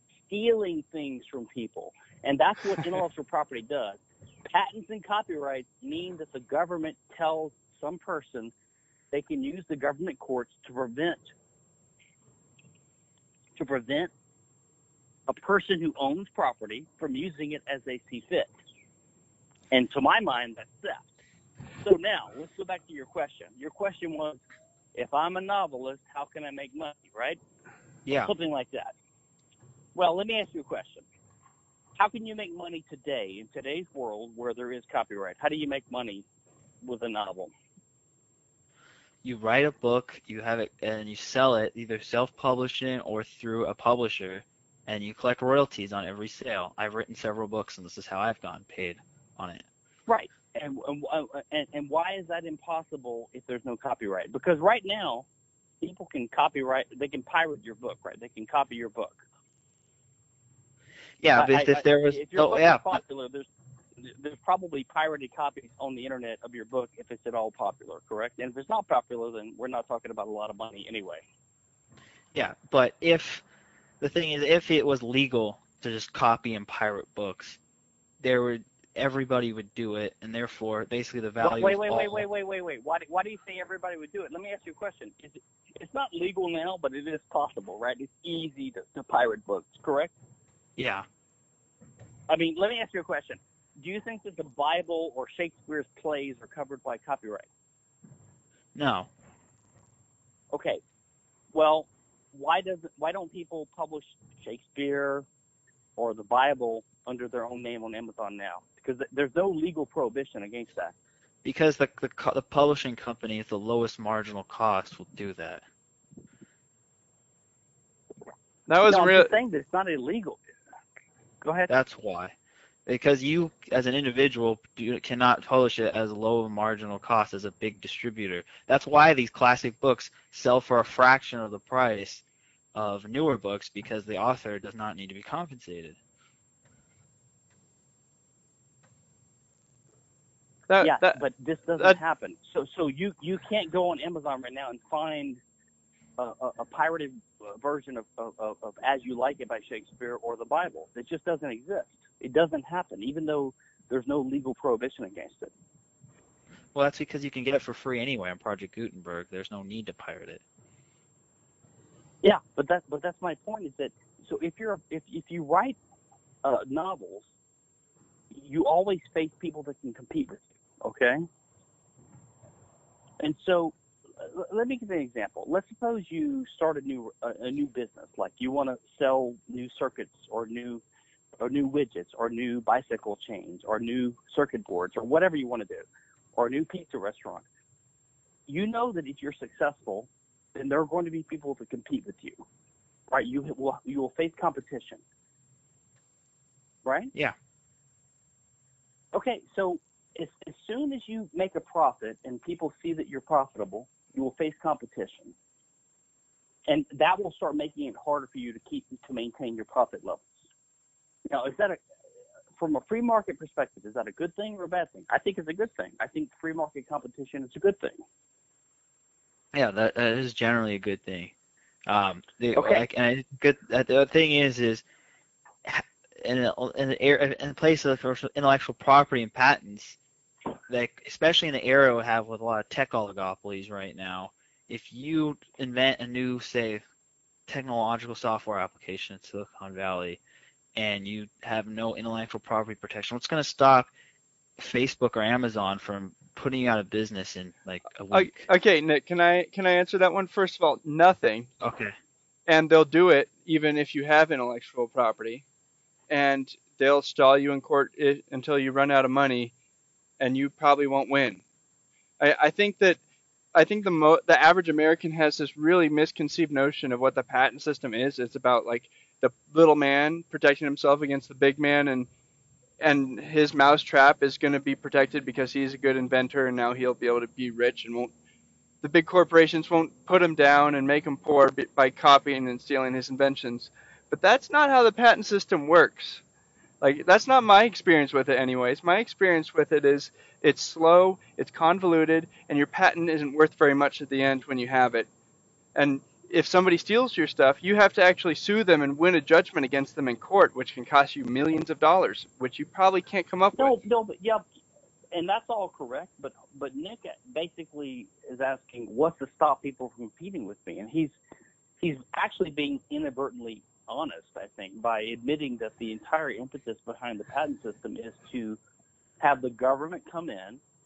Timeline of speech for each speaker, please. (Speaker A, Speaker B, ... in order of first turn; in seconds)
Speaker A: 0.3-8.5, 9.1-11.3, 13.6-14.1, 15.3-18.5, 19.7-21.1, 21.8-24.4, 24.9-27.4, 28.2-28.9, 29.9-31.1, 32.0-36.2, 36.8-37.5, 50.1-55.2, 55.8-59.2, 61.3-71.2, 81.4-90.1, 92.3-97.5, 100.5-100.8, 101.5-105.2, 106.0-110.9, 118.8-120.4, 121.4-121.7, 140.8-145.4, 146.2-155.5, 162.2-165.8, 166.4-167.3, 168.3-171.2, 173.2-180.8, 181.4-185.8, 186.3-187.4, 188.5-192.4, 193.1-195.0, 196.8-197.1, 199.1-205.3, 206.7-210.3, 211.3-211.8, 212.6-218.0, 222.5-222.8, 303.6-304.4, 305.1-311.1, 311.8-318.6, 319.2-320.6
Speaker B: 28.1-28.3, 39.2-49.6, 61.2-63.0, 72.3-73.4, 74.0-77.6, 78.2-82.2, 90.8-91.0, 98.7-99.1, 111.4-115.6, 121.7-122.3, 122.8-132.2, 132.7-136.0, 156.7-160.4, 219.5-221.3, 221.9-224.8, 225.6-230.0, 230.7-236.8, 237.5-240.2, 240.7-243.9, 244.6-248.5, 251.6-251.9
Speaker C: 118.7-119.3, 140.7-141.2, 248.1-251.5, 252.5-255.4, 256.1-259.5, 260.2-261.4, 262.2-263.0, 263.5-272.1, 272.8-278.1, 278.8-286.2, 286.8-295.1, 295.7-303.7